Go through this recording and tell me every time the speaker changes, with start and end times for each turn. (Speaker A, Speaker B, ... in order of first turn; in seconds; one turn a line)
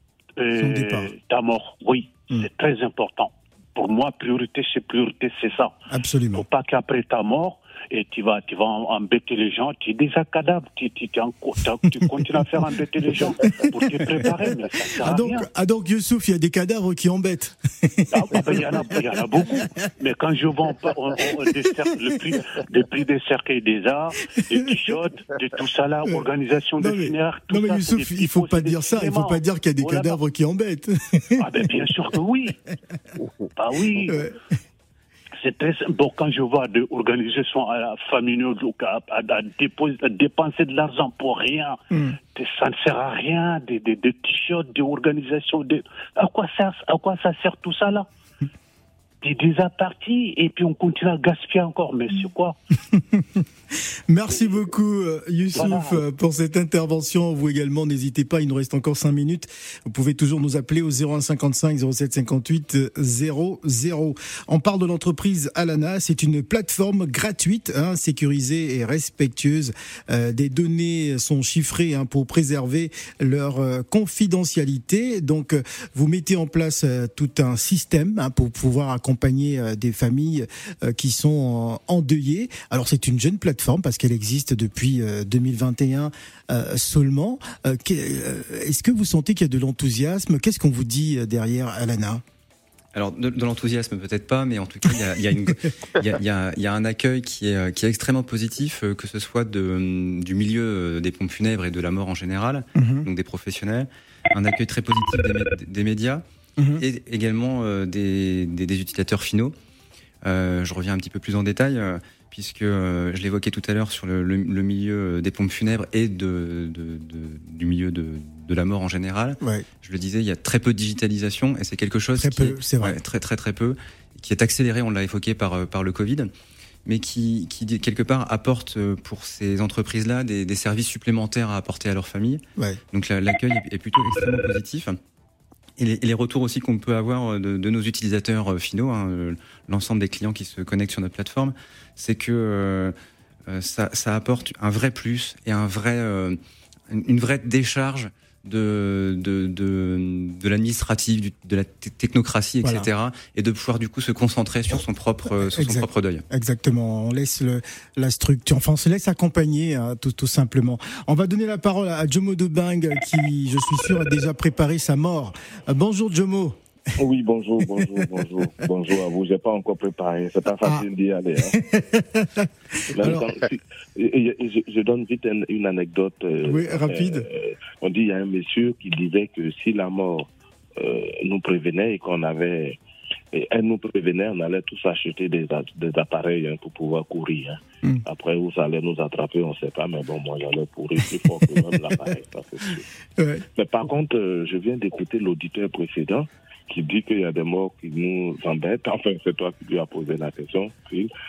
Speaker A: 0.4-5.8
Speaker B: 0.6-1.1
Speaker B: 5.9-6.4
Speaker A: 6.3-15.5
Speaker B: 13.2-14.4
Speaker B: 15.0-19.8
Speaker A: 18.1-30.2
Speaker B: 26.8-31.5
Speaker A: 31.4-32.6
Speaker A: 33.5-34.3
Speaker B: 34.0-34.3
Speaker A: 35.4-41.8
Speaker A: 42.3-48.0
Speaker A: 49.2-52.6
Speaker B: 52.9-53.4
Speaker B: 54.1-92.2
Speaker A: 55.5-56.0
Speaker C: 92.9-106.2
Speaker B: 102.7-103.1
Speaker B: 106.6-106.8
Speaker C: 106.8-109.5
Speaker C: 110.2-126.3
Speaker B: 119.4-119.7
Speaker B: 122.2-123.0
Speaker C: 126.8-135.0
Speaker C: 135.8-142.9
Speaker C: 143.5-146.4
Speaker C: 146.9-156.2
Speaker B: 152.6-152.9
Speaker B: 155.4-166.6
Speaker D: 167.0-171.6
Speaker B: 167.6-168.3
Speaker B: 171.4-173.3
Speaker D: 172.9-182.8
Speaker B: 176.4-177.2
Speaker D: 183.3-192.8
Speaker B: 191.0-192.1
Speaker B: 193.2-193.4
Speaker D: 193.5-201.1